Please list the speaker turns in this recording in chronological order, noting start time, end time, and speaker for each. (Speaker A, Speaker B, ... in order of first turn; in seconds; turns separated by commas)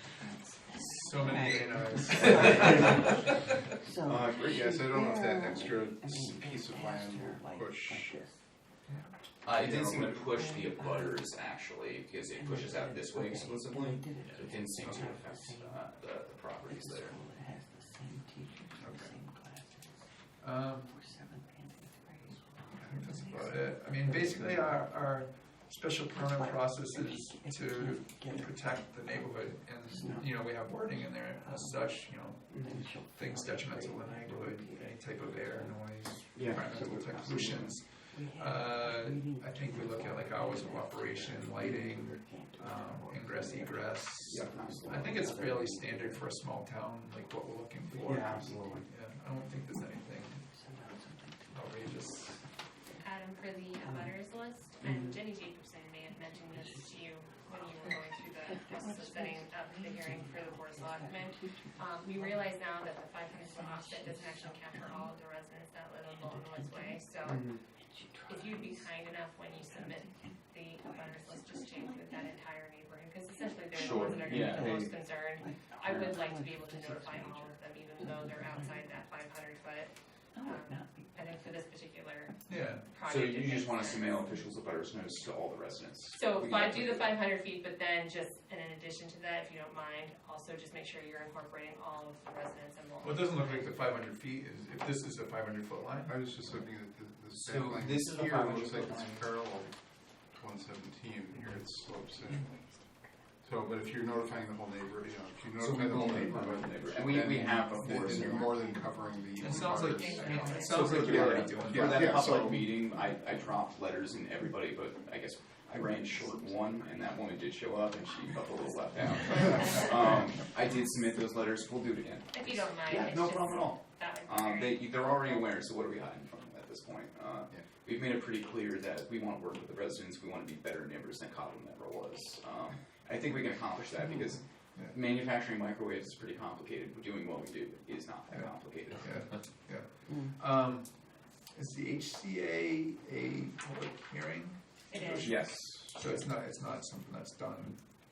Speaker A: 0.1-8.4, Speaker B: 1.0-3.7, Speaker C: 2.1-2.9, Speaker C: 4.0-4.7, Speaker D: 4.4-8.2, Speaker B: 8.9-9.1, Speaker C: 9.4-17.1, Speaker D: 9.5-10.4, Speaker A: 10.3-11.3, Speaker A: 12.3-15.8, Speaker A: 16.6-20.1, Speaker B: 18.8-19.2, Speaker B: 20.4-20.9, Speaker A: 20.8-24.8, Speaker B: 22.7-50.5, Speaker A: 26.1-35.9, Speaker C: 32.5-32.9, Speaker C: 36.3-37.8, Speaker A: 36.6-46.2, Speaker C: 44.2-45.4, Speaker A: 47.9-48.8, Speaker C: 48.0-48.9, Speaker A: 50.5-51.9, Speaker B: 51.5-52.4, Speaker E: 53.0-67.5, Speaker A: 53.8-54.1, Speaker C: 54.8-55.2, Speaker A: 56.1-57.0, Speaker A: 57.6-65.1, Speaker A: 66.1-67.0, Speaker C: 67.2-67.6, Speaker A: 67.8-68.9, Speaker E: 68.3-84.2, Speaker A: 69.5-72.3, Speaker A: 73.3-79.0, Speaker C: 73.7-74.9, Speaker C: 75.8-76.1, Speaker A: 80.3-81.5, Speaker B: 82.5-82.9, Speaker C: 83.0-87.1, Speaker E: 86.1-93.7, Speaker B: 93.0-96.2, Speaker D: 96.0-99.7, Speaker C: 97.3-99.3, Speaker D: 100.3-102.5, Speaker A: 102.3-102.7, Speaker D: 103.4-112.7, Speaker C: 105.6-108.7, Speaker B: 109.4-112.2, Speaker E: 109.6-111.3, Speaker C: 110.4-139.2, Speaker E: 122.3-125.5, Speaker A: 134.0-134.3, Speaker B: 138.3-140.9, Speaker A: 140.1-140.3, Speaker B: 141.6-147.8, Speaker E: 144.9-145.3, Speaker C: 145.2-146.2